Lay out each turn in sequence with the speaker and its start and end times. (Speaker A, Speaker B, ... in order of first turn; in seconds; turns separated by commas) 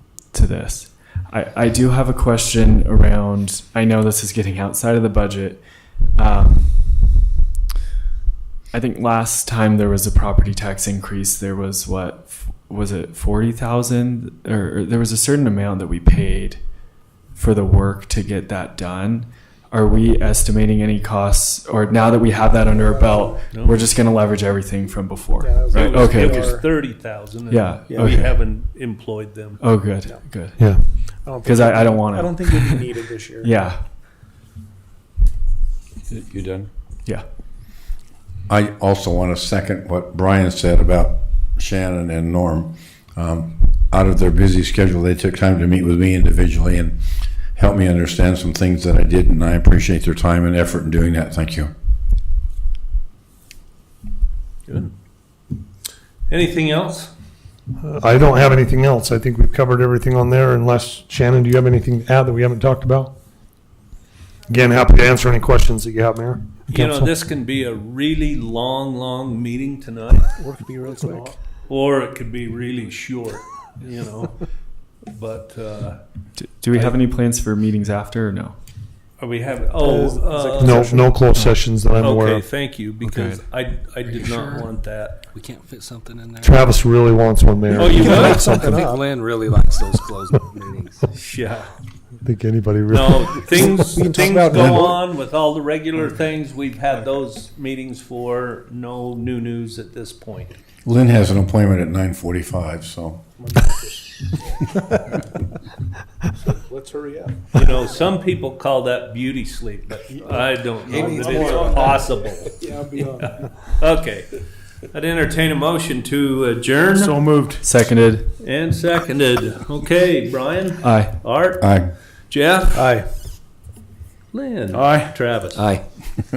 Speaker A: 0.3-7.1, Speaker A: 8.7-16.6, Speaker A: 17.3-26.6, Speaker B: 22.6-23.4, Speaker C: 23.5-23.8, Speaker B: 25.4-26.7, Speaker C: 25.7-29.7, Speaker A: 27.5-28.4, Speaker B: 27.9-28.2, Speaker A: 29.6-32.9, Speaker D: 30.6-30.9, Speaker B: 31.1-33.7, Speaker A: 33.4-33.8, Speaker E: 36.1-36.7, Speaker E: 38.5-47.0, Speaker E: 47.5-51.7, Speaker C: 54.7-54.9, Speaker C: 56.3-57.1, Speaker D: 57.8-63.1, Speaker D: 64.5-67.0, Speaker C: 66.7-70.3, Speaker B: 70.3-71.4, Speaker C: 70.9-74.4, Speaker C: 75.1-76.0, Speaker A: 76.4-78.6, Speaker C: 79.2-81.0, Speaker B: 79.6-81.2, Speaker D: 80.6-82.5, Speaker C: 81.9-85.2, Speaker A: 83.0-83.4, Speaker A: 84.1-84.7, Speaker F: 85.3-86.8, Speaker D: 86.4-89.0, Speaker F: 87.7-91.0, Speaker C: 87.7-88.6, Speaker B: 88.0-88.5, Speaker C: 91.1-91.7, Speaker D: 92.2-95.0, Speaker C: 92.9-100.6, Speaker B: 93.9-94.8, Speaker E: 100.8-103.2, Speaker B: 103.4-104.2, Speaker B: 106.4-108.0, Speaker C: 107.5-114.4, Speaker B: 110.2-113.5, Speaker F: 110.9-111.6, Speaker D: 111.3-112.1, Speaker C: 114.9-117.2, Speaker A: 117.6-118.3, Speaker C: 118.4-121.7, Speaker A: 120.8-121.1, Speaker E: 121.6-121.9, Speaker C: 122.3-122.9, Speaker C: 124.3-125.7, Speaker E: 124.7-125.1, Speaker F: 125.6-125.8